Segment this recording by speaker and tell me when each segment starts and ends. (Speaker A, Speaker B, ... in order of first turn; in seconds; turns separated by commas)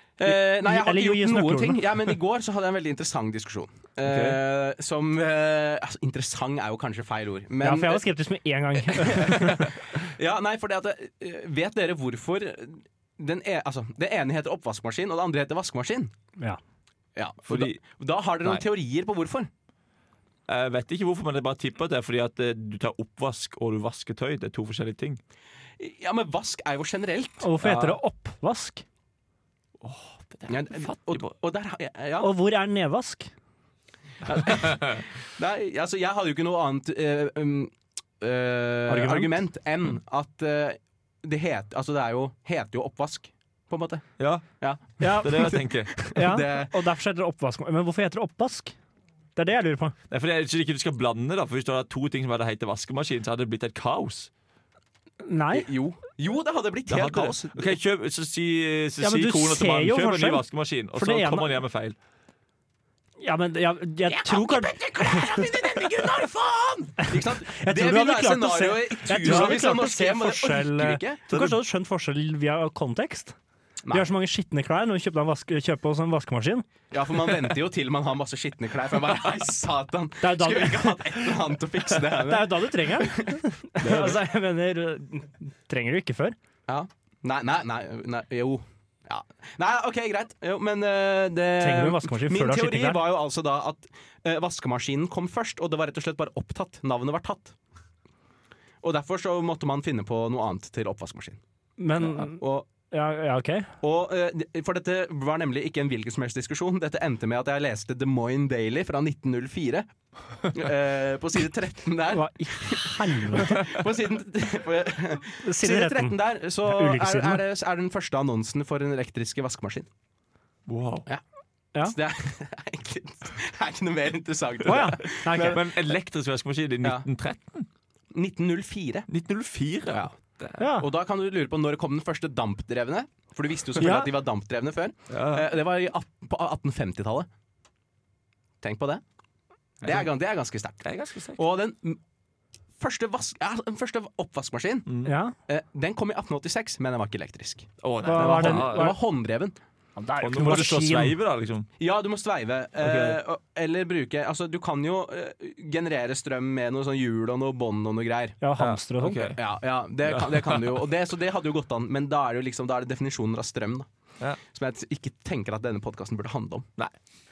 Speaker A: 0.2-8.1, Speaker B: 0.2-1.8, Speaker C: 4.0-4.4, Speaker B: 7.6-9.6, Speaker A: 8.8-16.1, Speaker A: 17.1-19.5, Speaker C: 17.5-17.7, Speaker C: 20.5-25.2, Speaker A: 25.8-27.5, Speaker B: 27.4-28.8, Speaker C: 27.6-27.9, Speaker C: 29.8-31.3, Speaker A: 30.5-32.3, Speaker B: 32.2-33.3, Speaker A: 34.2-44.0, Speaker C: 34.5-34.9, Speaker B: 38.9-39.4, Speaker C: 44.2-44.6, Speaker A: 44.6-46.7, Speaker B: 45.0-48.7, Speaker C: 45.2-46.1, Speaker B: 49.4-49.9, Speaker C: 50.1-54.3, Speaker B: 55.2-55.7, Speaker A: 55.5-57.7, Speaker C: 56.9-62.0, Speaker B: 59.0-60.4, Speaker B: 60.9-61.6, Speaker B: 63.2-65.4, Speaker A: 64.1-71.2, Speaker B: 67.4-73.3, Speaker C: 69.2-69.6, Speaker C: 71.3-71.6, Speaker B: 73.9-76.7, Speaker A: 76.9-83.3, Speaker B: 80.2-81.4, Speaker B: 82.0-86.3, Speaker C: 83.8-84.2, Speaker A: 86.7-97.5, Speaker B: 91.6-93.0, Speaker A: 98.8-101.4, Speaker B: 101.8-103.7, Speaker A: 102.0-102.7, Speaker A: 103.8-109.9, Speaker A: 110.4-119.9, Speaker B: 112.1-113.6, Speaker B: 115.4-117.4, Speaker C: 120.7-121.0, Speaker A: 121.8-125.7, Speaker B: 124.6-125.6, Speaker C: 125.3-127.7, Speaker A: 128.1-129.1, Speaker C: 129.1-130.7, Speaker B: 130.6-130.9, Speaker A: 130.8-137.3, Speaker B: 133.8-134.1, Speaker C: 135.1-135.5, Speaker A: 138.6-139.0, Speaker A: 139.8-140.8, Speaker C: 139.8-140.1, Speaker C: 140.8-141.4, Speaker A: 141.4-142.0, Speaker A: 142.8-149.6, Speaker C: 144.9-145.1, Speaker B: 145.0-145.3, Speaker C: 147.8-148.9, Speaker B: 148.0-149.0, Speaker B: 149.9-151.2, Speaker C: 150.2-151.7, Speaker A: 151.8-158.4, Speaker C: 152.8-153.2, Speaker B: 158.4-159.3, Speaker C: 158.6-159.4, Speaker A: 159.4-163.9, Speaker C: 160.0-160.8, Speaker A: 164.5-166.7